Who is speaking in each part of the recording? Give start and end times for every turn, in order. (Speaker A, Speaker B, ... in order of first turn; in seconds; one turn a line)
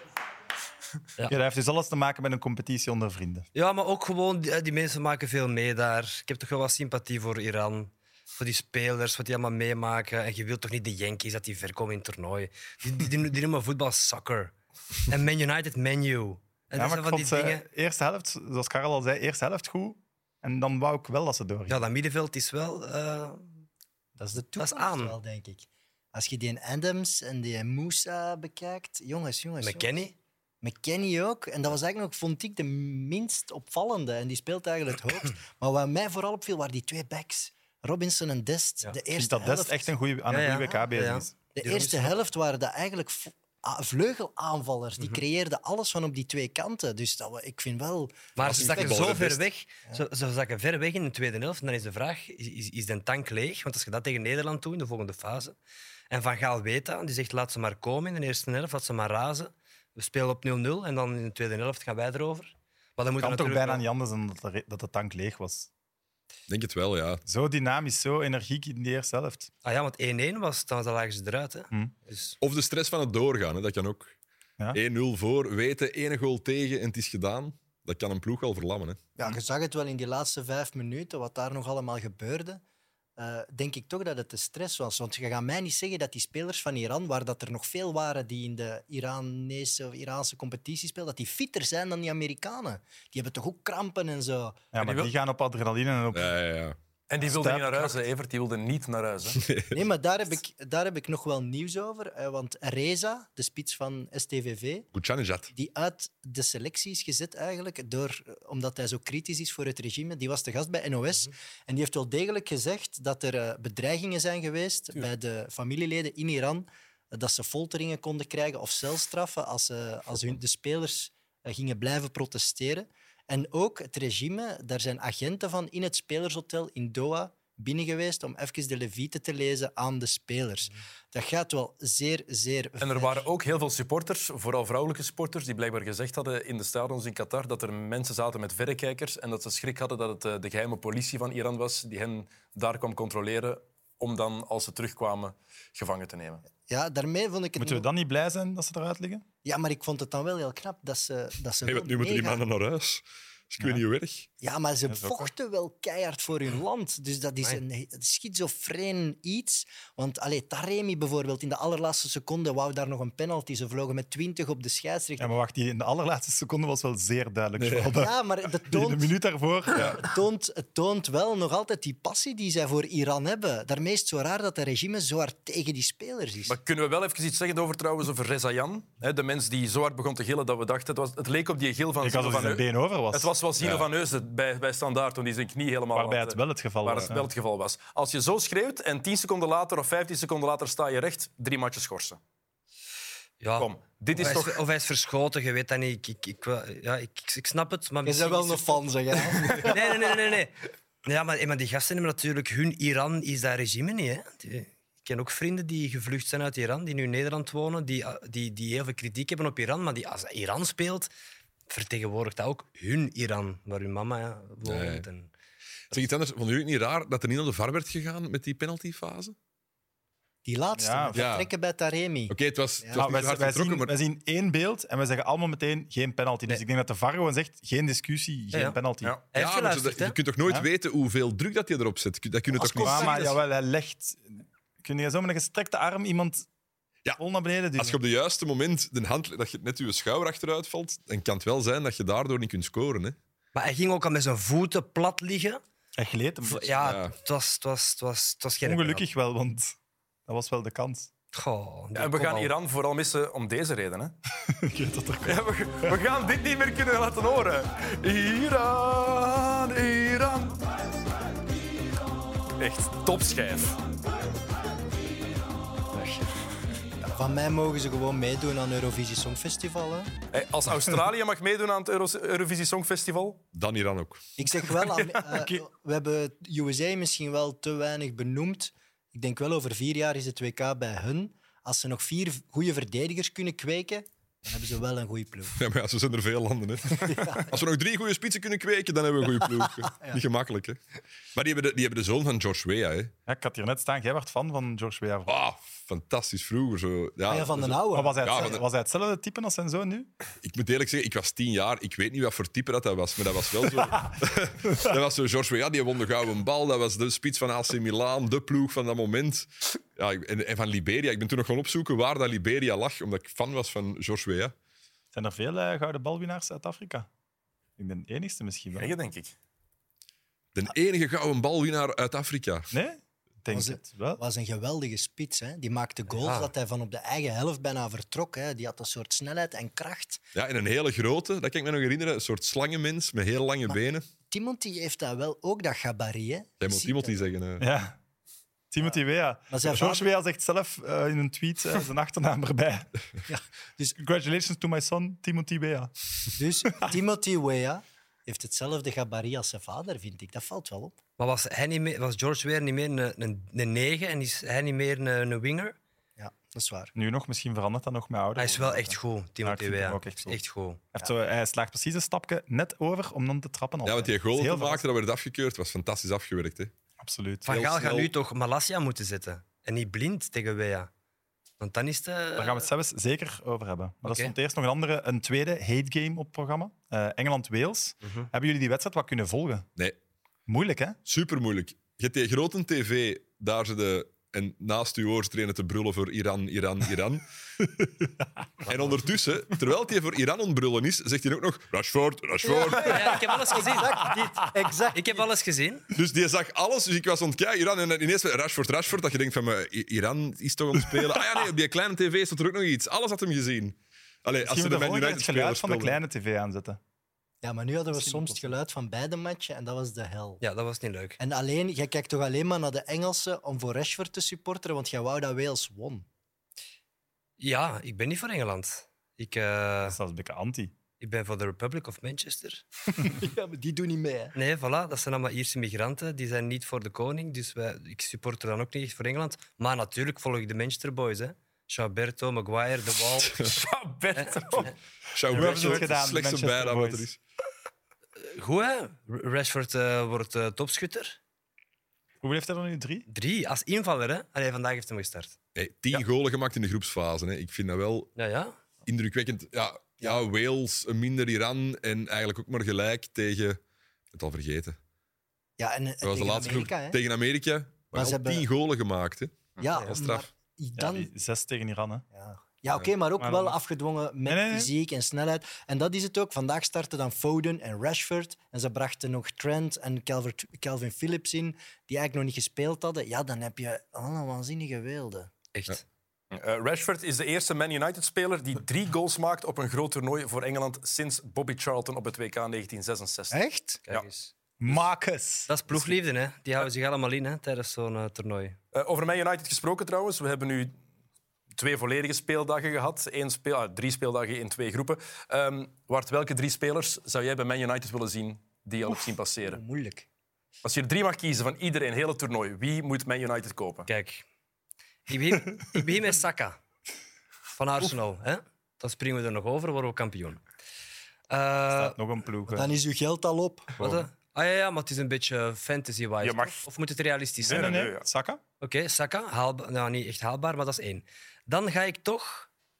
Speaker A: 1.3-3.5
Speaker B: 3.5-17.6
Speaker A: 16.8-21.9
Speaker B: 21.7-23.6
Speaker C: 24.2-30.0
Speaker B: 24.6-25.1
Speaker B: 29.6-30.1
Speaker C: 30.6-39.9
Speaker A: 39.1-41.3
Speaker B: 40.3-42.1
Speaker C: 41.5-49.2
Speaker B: 48.4-55.6
Speaker D: 48.4-49.4
Speaker B: 56.1-63.8
Speaker A: 63.2-65.7
Speaker D: 66.5-67.2
Speaker A: 67.2-69.5
Speaker B: 69.6-72.4
Speaker D: 72.4-74.1
Speaker D: 74.7-79.0
Speaker C: 79.2-82.6
Speaker C: 83.2-94.7
Speaker A: 94.7-96.4
Speaker E: 94.8-95.1
Speaker D: 96.1-96.8
Speaker E: 97.1-99.4
Speaker A: 97.2-98.0
Speaker D: 99.4-99.8
Speaker C: 99.7-104.9
Speaker D: 104.9-105.5
Speaker C: 105.5-133.2
Speaker E: 132.8-146.4
Speaker C: 146.7-147.9
Speaker A: 147.6-149.2
Speaker C: 149.4-152.4
Speaker D: 151.6-154.3
Speaker C: 154.4-165.3
Speaker A: 154.9-155.3
Speaker A: 165.2-170.0
Speaker D: 167.6-167.9
Speaker C: 167.8-169.1
Speaker D: 169.7-170.0
Speaker C: 169.8-176.6
Speaker E: 176.4-192.2
Speaker A: 182.0-183.3
Speaker D: 183.6-183.9
Speaker A: 185.9-187.3
Speaker B: 193.4-198.8
Speaker E: 193.6-194.6
Speaker C: 198.0-200.1
Speaker B: 199.5-200.5
Speaker B: 201.1-211.1
Speaker B: 211.7-215.3
Speaker D: 214.6-215.1
Speaker D: 215.9-219.3
Speaker C: 220.4-223.0
Speaker A: 220.8-221.3
Speaker D: 221.1-221.5
Speaker D: 222.3-223.9
Speaker A: 222.9-229.1
Speaker B: 229.3-230.2
Speaker D: 229.3-233.4
Speaker C: 232.5-233.4
Speaker A: 232.8-236.5
Speaker A: 237.2-238.0
Speaker D: 237.8-243.2
Speaker B: 243.5-245.6
Speaker A: 246.0-246.8
Speaker B: 246.4-249.0
Speaker D: 246.8-247.1
Speaker A: 248.6-251.1
Speaker B: 251.3-252.5
Speaker E: 251.9-254.2
Speaker A: 254.4-255.9
Speaker E: 255.2-260.6
Speaker E: 262.6-263.8
Speaker C: 265.9-266.2
Speaker C: 267.0-270.1
Speaker E: 270.3-273.4
Speaker D: 273.5-274.3
Speaker C: 274.4-285.5
Speaker E: 274.7-275.4
Speaker D: 285.5-290.8
Speaker C: 287.0-287.6
Speaker C: 289.9-290.2
Speaker D: 291.3-293.1
Speaker A: 293.3-295.4
Speaker D: 295.3-298.6
Speaker C: 297.3-298.6
Speaker A: 297.9-300.1
Speaker D: 300.4-314.5
Speaker A: 315.1-317.1
Speaker A: 317.8-318.9
Speaker E: 318.7-319.3
Speaker D: 320.5-322.7
Speaker A: 322.7-324.2
Speaker C: 323.5-330.2
Speaker B: 326.1-326.5
Speaker D: 330.3-334.1
Speaker C: 334.3-337.2
Speaker D: 336.6-337.6
Speaker A: 337.6-338.0
Speaker A: 338.7-343.0
Speaker C: 339.5-340.1
Speaker C: 343.3-344.0
Speaker A: 344.0-345.9
Speaker C: 346.4-351.0
Speaker B: 351.2-355.8
Speaker C: 356.2-356.9
Speaker A: 356.9-360.4
Speaker B: 358.4-360.8
Speaker A: 360.9-364.8
Speaker D: 363.8-366.7
Speaker A: 367.0-367.5
Speaker B: 367.4-370.9
Speaker D: 367.4-368.1
Speaker B: 371.6-372.6
Speaker A: 372.4-379.6
Speaker B: 374.0-374.3
Speaker B: 378.0-378.3
Speaker A: 380.5-381.0
Speaker D: 381.0-387.2
Speaker D: 388.6-393.3
Speaker C: 392.4-395.3
Speaker B: 392.7-394.1
Speaker B: 394.9-395.9
Speaker D: 395.9-406.0
Speaker A: 404.4-406.8
Speaker C: 407.4-410.4
Speaker A: 407.9-408.5
Speaker B: 410.4-411.2
Speaker C: 411.2-416.0
Speaker B: 417.4-420.0
Speaker A: 419.8-420.7
Speaker B: 421.0-422.6
Speaker C: 423.0-424.3
Speaker B: 424.3-433.4
Speaker E: 433.3-434.7
Speaker B: 434.1-434.7
Speaker D: 435.1-437.2
Speaker A: 435.3-437.1
Speaker B: 438.2-441.2
Speaker A: 442.2-443.1
Speaker B: 443.1-445.3
Speaker D: 445.5-448.1
Speaker B: 448.1-448.5
Speaker D: 448.9-453.6
Speaker D: 454.1-454.8
Speaker C: 455.6-457.0
Speaker D: 456.0-460.3
Speaker C: 457.9-458.4
Speaker C: 459.6-461.1
Speaker A: 460.8-462.0
Speaker C: 462.1-475.3
Speaker A: 463.2-463.6
Speaker A: 464.3-464.7
Speaker B: 475.5-475.8
Speaker E: 476.3-483.4
Speaker C: 483.3-483.8
Speaker B: 483.9-484.3
Speaker A: 484.6-486.0
Speaker B: 485.5-488.6
Speaker E: 488.7-490.7
Speaker E: 491.5-499.6
Speaker C: 498.9-500.1
Speaker E: 500.6-503.9
Speaker B: 503.9-504.2
Speaker B: 505.1-506.6
Speaker B: 507.5-510.4
Speaker B: 511.3-512.0
Speaker A: 511.7-512.7
Speaker C: 512.5-513.8
Speaker B: 513.8-517.8
Speaker A: 513.8-514.1
Speaker E: 516.2-516.6
Speaker E: 517.4-518.0
Speaker A: 517.5-518.4
Speaker B: 518.6-522.5